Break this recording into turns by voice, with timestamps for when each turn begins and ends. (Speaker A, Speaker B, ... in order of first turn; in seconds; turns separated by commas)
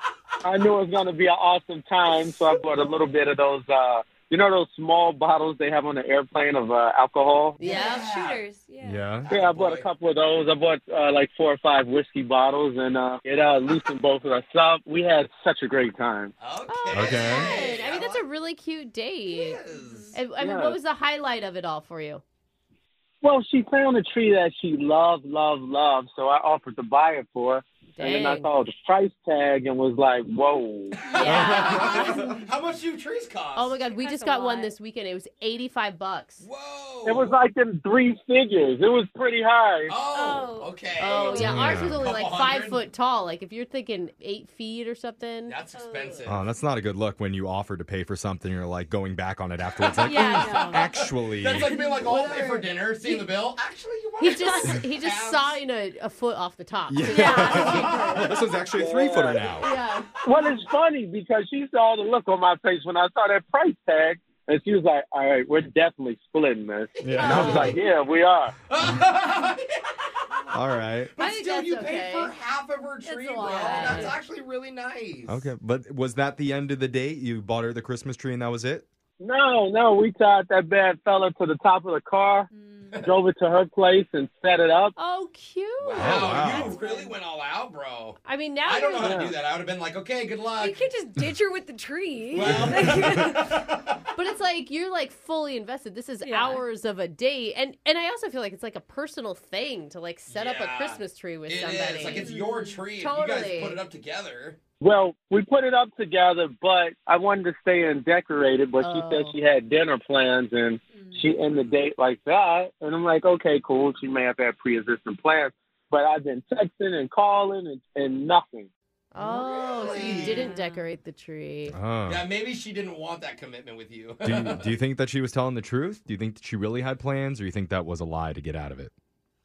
Speaker A: 0.4-7.6, Speaker B: 7.6-8.1, Speaker C: 7.6-8.4, Speaker D: 7.7-9.3, Speaker E: 8.8-9.3, Speaker C: 9.3-9.8, Speaker A: 9.3-16.3, Speaker C: 16.4-18.2, Speaker B: 16.7-19.6, Speaker E: 16.9-17.6, Speaker C: 19.3-20.2, Speaker D: 19.7-20.1, Speaker B: 20.1-22.2, Speaker A: 20.4-20.8, Speaker A: 23.2-31.0, Speaker B: 28.0-28.5, Speaker C: 31.0-33.8, Speaker B: 31.1-32.1, Speaker E: 31.2-32.1, Speaker B: 33.6-36.5, Speaker D: 33.9-34.7, Speaker C: 36.4-37.4, Speaker A: 37.1-39.9, Speaker C: 39.9-42.8, Speaker D: 40.0-41.5, Speaker B: 41.0-45.6, Speaker E: 41.4-42.1, Speaker C: 45.5-46.4, Speaker D: 45.7-46.3, Speaker E: 46.3-51.7, Speaker D: 50.0-50.8, Speaker C: 50.0-55.6, Speaker D: 51.6-52.1, Speaker B: 54.2-58.3, Speaker E: 56.9-59.7, Speaker D: 57.0-58.0, Speaker C: 57.5-58.1, Speaker A: 58.7-59.5, Speaker B: 59.6-60.1, Speaker A: 60.2-68.5, Speaker E: 67.0-67.8, Speaker C: 67.1-67.7, Speaker B: 67.2-67.7, Speaker C: 68.7-69.7, Speaker E: 70.5-71.1, Speaker C: 71.1-75.5, Speaker B: 71.2-72.3, Speaker D: 73.1-74.2, Speaker B: 73.2-74.2, Speaker E: 75.3-78.9, Speaker A: 79.2-82.5, Speaker D: 82.5-83.0, Speaker A: 83.0-84.9, Speaker B: 85.0-86.6, Speaker C: 85.8-90.8, Speaker E: 86.0-86.8, Speaker D: 86.7-87.1, Speaker B: 88.2-89.2, Speaker A: 89.0-89.3, Speaker D: 90.6-93.5, Speaker C: 92.3-94.0, Speaker E: 92.5-93.0, Speaker B: 94.2-102.3, Speaker D: 96.2-96.6, Speaker C: 100.3-104.6, Speaker D: 102.2-102.9, Speaker B: 103.0-103.8, Speaker A: 104.8-118.7, Speaker B: 108.8-109.3, Speaker D: 111.0-111.4, Speaker B: 119.1-121.8, Speaker C: 119.2-120.5, Speaker D: 120.3-120.8, Speaker E: 121.7-122.2, Speaker C: 122.1-124.7, Speaker E: 124.2-128.9